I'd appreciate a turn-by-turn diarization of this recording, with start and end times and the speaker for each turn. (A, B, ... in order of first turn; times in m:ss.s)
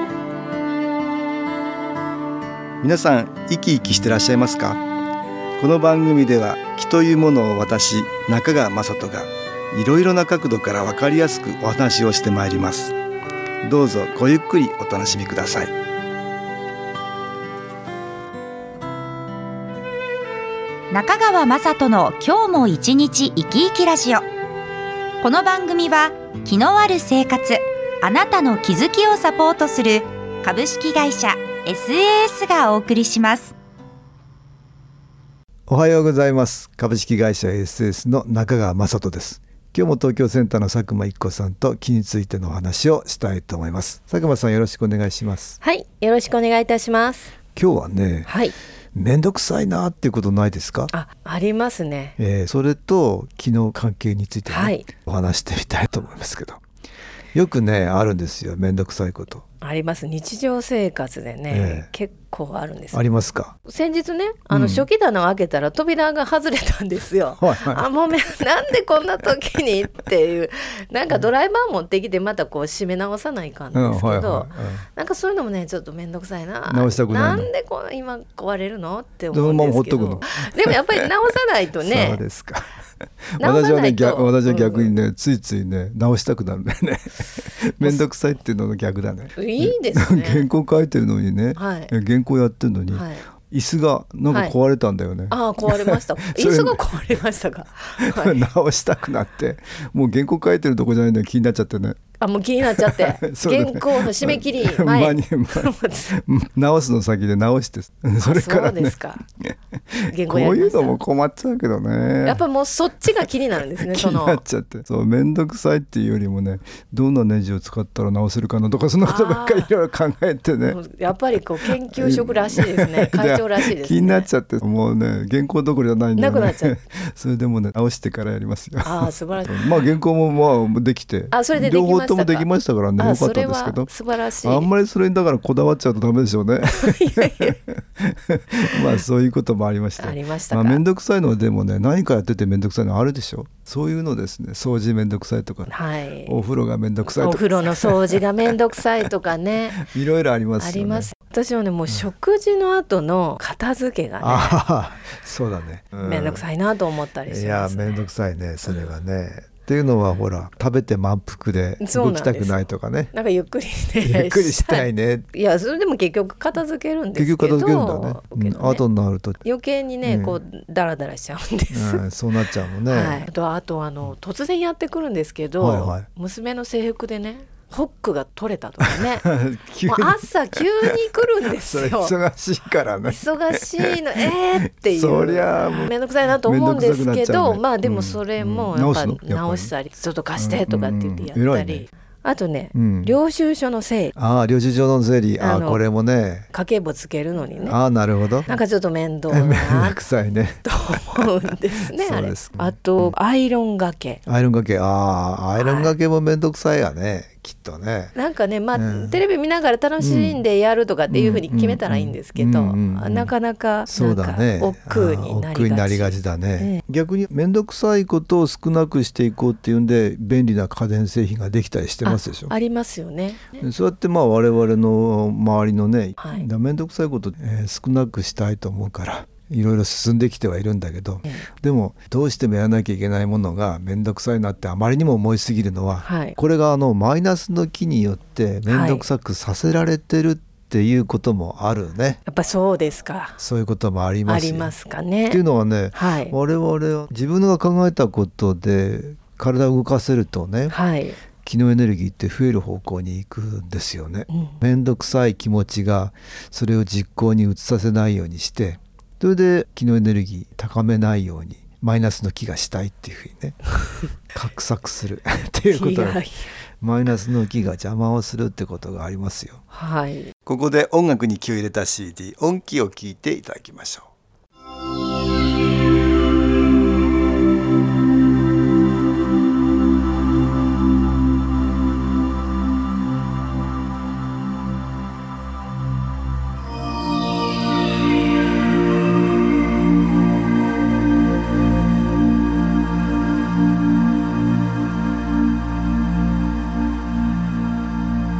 0:02.8-0:04.8 A
0:05.6-0:13.0 A
0:13.6-0:15.7 A
0:20.9-0:24.2 B
0:25.2-0:33.5 B
0:35.7-0:45.6 A
0:45.6-0:47.3 C
0:47.6-0:48.3 A
0:48.2-0:48.5 C
0:48.9-0:50.9 A
0:50.9-0:52.2 C
0:52.2-0:56.6 A
0:54.5-0:54.8 C
0:57.3-0:59.4 A
0:59.6-1:03.0 C
1:01.5-1:01.9 A
1:02.9-1:03.5 A
1:03.6-1:22.2 C
1:04.5-1:04.9 A
1:07.4-1:07.9 A
1:13.7-1:14.8 A
1:16.7-1:17.5 A
1:19.3-1:21.1 A
1:21.8-1:22.6 A
1:23.4-1:37.2 A
1:23.4-1:24.9 C
1:29.4-1:30.5 C
1:31.6-1:31.9 C
1:32.9-1:33.2 C
1:34.3-1:34.5 C
1:35.3-1:38.5 C
1:38.0-1:42.0 A
1:42.2-1:46.1 C
1:42.6-1:52.4 A
1:48.2-1:49.2 C
1:50.1-1:51.0 C
1:52.2-1:54.4 C
1:53.8-2:00.8 A
1:59.0-1:59.7 C
2:00.7-2:04.3 C
2:01.6-2:13.9 A
2:06.2-2:06.8 C
2:08.8-2:10.0 C
2:11.3-2:14.7 C
2:14.4-2:25.7 A
2:16.7-2:17.6 C
2:20.0-2:20.8 C
2:25.7-2:26.4 C
2:26.2-2:28.5 A
2:27.0-2:29.8 C
2:29.8-2:31.1 A
2:30.6-2:34.6 C
2:34.2-2:36.4 A
2:36.0-2:38.1 C
2:37.3-2:43.1 A
2:41.8-2:48.8 C
2:44.0-2:45.3 A
2:47.2-2:49.4 A
2:49.4-2:52.0 C
2:50.0-2:50.4 A
2:51.7-2:53.3 A
2:52.9-2:59.3 C
2:55.6-2:56.1 A
2:59.1-3:09.7 A
2:59.8-3:02.2 C
3:03.0-3:14.1 C
3:10.3-3:11.9 A
3:12.7-3:13.2 A
3:14.2-3:16.5 A
3:15.4-3:15.8 C
3:16.5-3:17.8 C
3:17.6-3:18.6 A
3:18.5-3:20.0 C
3:19.3-3:21.3 A
3:20.6-3:24.2 C
3:21.9-3:23.1 A
3:24.2-3:28.1 A
3:25.6-3:26.0 C
3:28.1-3:36.8 C
3:28.7-3:29.2 A
3:30.0-3:30.4 A
3:31.1-3:33.3 A
3:33.9-3:42.5 A
3:42.0-3:43.6 C
3:43.6-4:02.2 A
3:46.2-3:46.5 C
3:56.0-3:56.4 C
3:58.7-3:59.1 C
4:02.3-4:03.4 C
4:03.4-4:04.7 A
4:04.2-4:06.3 C
4:05.3-4:10.8 A
4:10.7-4:11.2 C
4:11.4-4:23.6 A
4:24.2-4:26.3 A
4:25.7-4:26.4 C
4:26.8-4:29.6 A
4:29.7-4:30.3 C
4:30.4-4:34.1 A